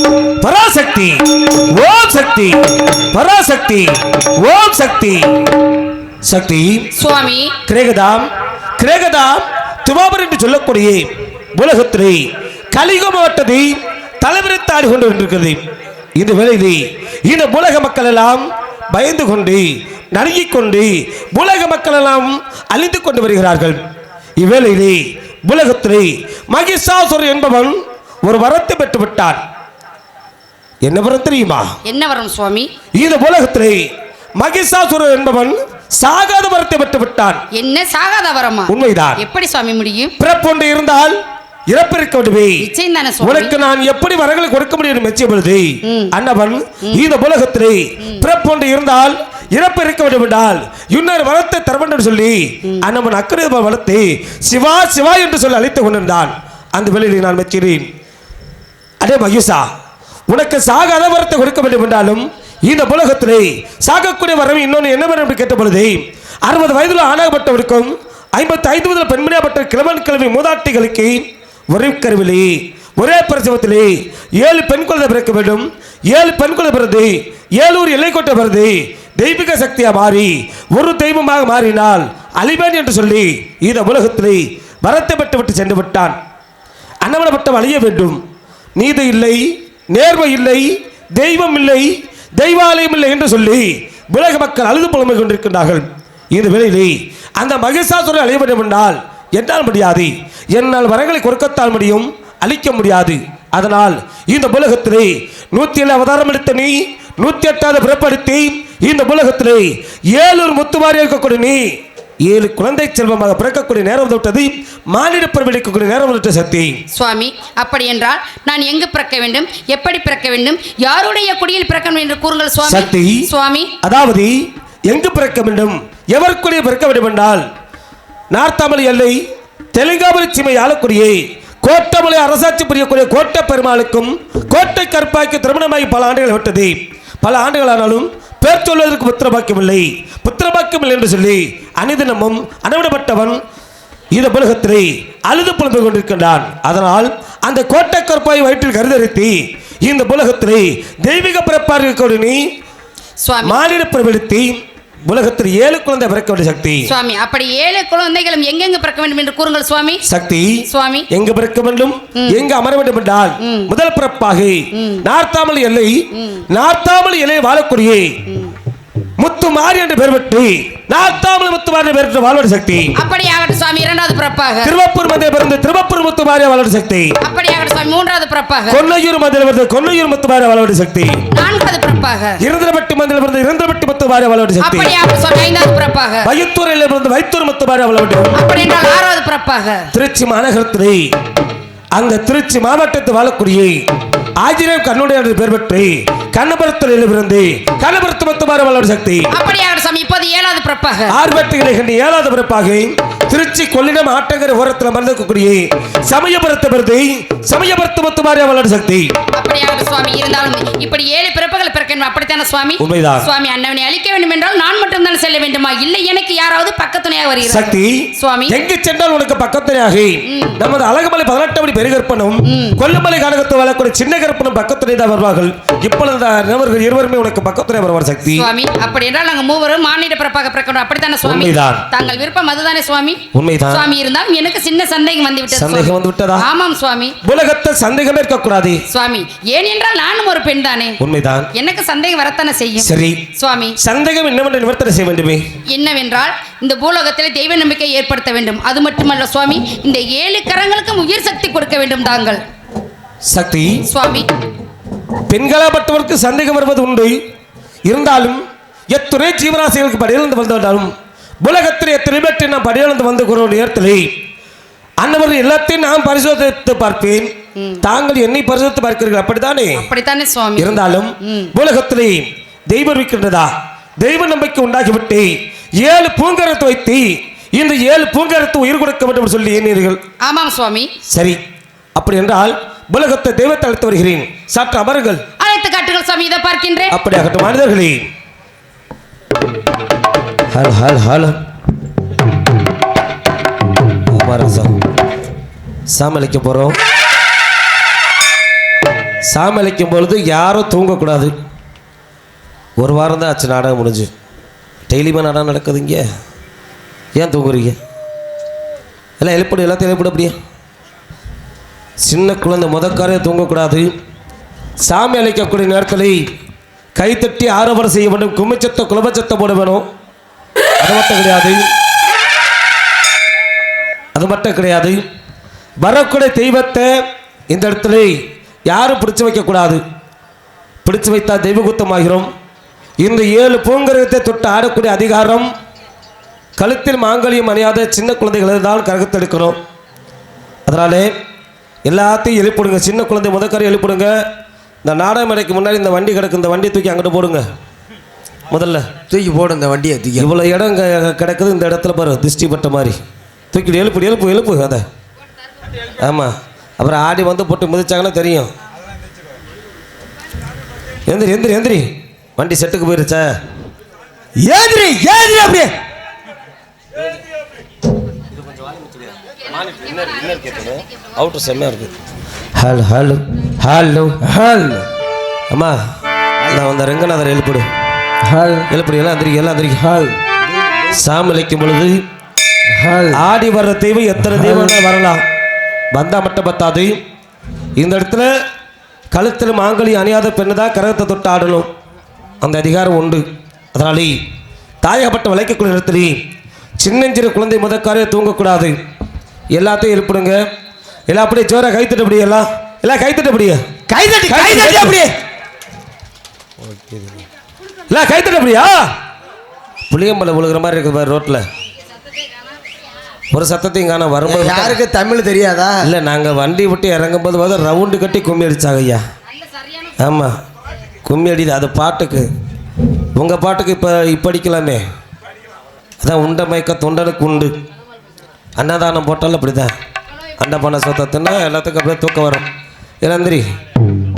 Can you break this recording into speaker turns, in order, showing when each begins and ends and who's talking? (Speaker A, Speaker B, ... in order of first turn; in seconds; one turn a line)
Speaker A: 0.4-2.6
Speaker A: 3.1-5.3
Speaker A: 6.2-6.9
Speaker B: 6.9-7.6
Speaker A: 7.7-15.6
Speaker A: 16.1-23.8
Speaker A: 24.4-29.4
Speaker A: 30.8-31.7
Speaker B: 31.8-32.7
Speaker A: 32.9-33.9
Speaker A: 34.4-37.4
Speaker B: 37.5-40.1
Speaker A: 38.7-39.2
Speaker A: 40.2-41.1
Speaker A: 41.7-42.7
Speaker B: 42.6-43.5
Speaker A: 43.2-57.9
Speaker B: 45.8-46.1
Speaker A: 59.0-59.6
Speaker A: 60.3-86.2
Speaker A: 87.0-88.2
Speaker A: 88.8-111.6
Speaker A: 112.2-116.8
Speaker B: 116.9-123.8
Speaker A: 122.6-123.3
Speaker A: 123.8-127.4
Speaker A: 128.3-129.2
Speaker A: 129.7-143.4
Speaker A: 144.1-152.4
Speaker B: 153.2-153.6
Speaker A: 153.4-156.9
Speaker B: 156.9-160.0
Speaker A: 160.0-168.1
Speaker B: 160.6-161.1
Speaker B: 162.2-162.4
Speaker B: 163.4-163.7
Speaker B: 164.7-165.1
Speaker B: 166.2-166.4
Speaker B: 168.3-168.5
Speaker A: 169.2-172.9
Speaker B: 172.9-174.7
Speaker A: 174.6-177.1
Speaker B: 177.2-178.8
Speaker A: 178.7-181.2
Speaker B: 181.3-182.4
Speaker A: 182.4-184.9
Speaker B: 184.6-186.3
Speaker A: 186.2-188.4
Speaker B: 188.3-189.9
Speaker A: 189.9-191.0
Speaker A: 191.9-193.8
Speaker A: 194.4-199.3
Speaker B: 199.3-201.2
Speaker A: 201.1-209.1
Speaker B: 209.3-218.6
Speaker A: 212.8-213.3
Speaker A: 217.4-228.5
Speaker B: 220.2-220.6
Speaker B: 222.5-222.8
Speaker B: 228.3-237.2
Speaker A: 231.2-231.8
Speaker A: 233.3-233.8
Speaker A: 235.5-236.5
Speaker A: 237.2-238.8
Speaker B: 238.9-241.0
Speaker A: 241.0-241.5
Speaker B: 241.5-243.8
Speaker A: 242.8-243.2
Speaker A: 243.8-245.4
Speaker B: 245.7-252.4
Speaker A: 253.3-253.8
Speaker B: 253.8-254.3
Speaker A: 255.3-257.1
Speaker A: 257.9-264.1
Speaker A: 265.0-269.9
Speaker B: 267.6-267.8
Speaker B: 269.7-271.5
Speaker A: 270.6-280.0
Speaker B: 280.2-280.9
Speaker A: 281.1-281.4
Speaker A: 281.9-285.2
Speaker B: 285.4-286.9
Speaker A: 286.9-288.1
Speaker A: 290.5-291.4
Speaker A: 294.1-294.8
Speaker A: 295.9-296.8
Speaker A: 299.2-301.3
Speaker A: 302.8-304.1
Speaker A: 304.9-306.1
Speaker A: 307.1-307.8
Speaker A: 309.2-310.4
Speaker A: 312.0-313.9
Speaker A: 314.8-316.3
Speaker A: 316.9-319.8
Speaker A: 320.8-321.6
Speaker A: 324.1-325.0
Speaker A: 325.8-326.9
Speaker A: 327.5-328.1
Speaker A: 328.7-329.8
Speaker A: 330.8-332.3
Speaker A: 333.0-335.5
Speaker A: 336.6-339.6
Speaker A: 340.6-341.1
Speaker A: 341.9-344.1
Speaker A: 344.8-347.4
Speaker A: 348.5-348.9
Speaker C: 349.1-350.3
Speaker A: 350.2-353.0
Speaker A: 353.5-354.8
Speaker A: 356.0-358.5
Speaker A: 361.1-363.3
Speaker C: 364.4-365.7
Speaker A: 368.6-371.9
Speaker A: 372.6-374.3
Speaker C: 374.2-374.9
Speaker A: 375.5-375.8
Speaker A: 376.4-377.6
Speaker C: 378.2-378.7
Speaker A: 378.7-380.1
Speaker A: 380.9-382.0
Speaker C: 382.8-383.2
Speaker A: 383.1-385.2
Speaker C: 384.3-384.8
Speaker A: 385.9-387.0
Speaker A: 387.8-388.3
Speaker A: 389.1-391.7
Speaker A: 392.4-394.1
Speaker A: 394.8-396.2
Speaker A: 396.8-398.7
Speaker A: 399.5-400.4
Speaker A: 401.1-403.6
Speaker C: 403.9-405.1
Speaker A: 404.3-405.0
Speaker A: 407.9-408.9
Speaker A: 409.9-411.4
Speaker A: 413.3-414.8
Speaker C: 414.2-415.9
Speaker A: 415.8-419.0
Speaker B: 419.4-419.9
Speaker A: 420.0-420.4
Speaker A: 421.0-422.3
Speaker A: 423.1-424.8
Speaker A: 426.0-427.5
Speaker A: 428.6-429.7
Speaker A: 430.4-432.5
Speaker A: 433.0-433.4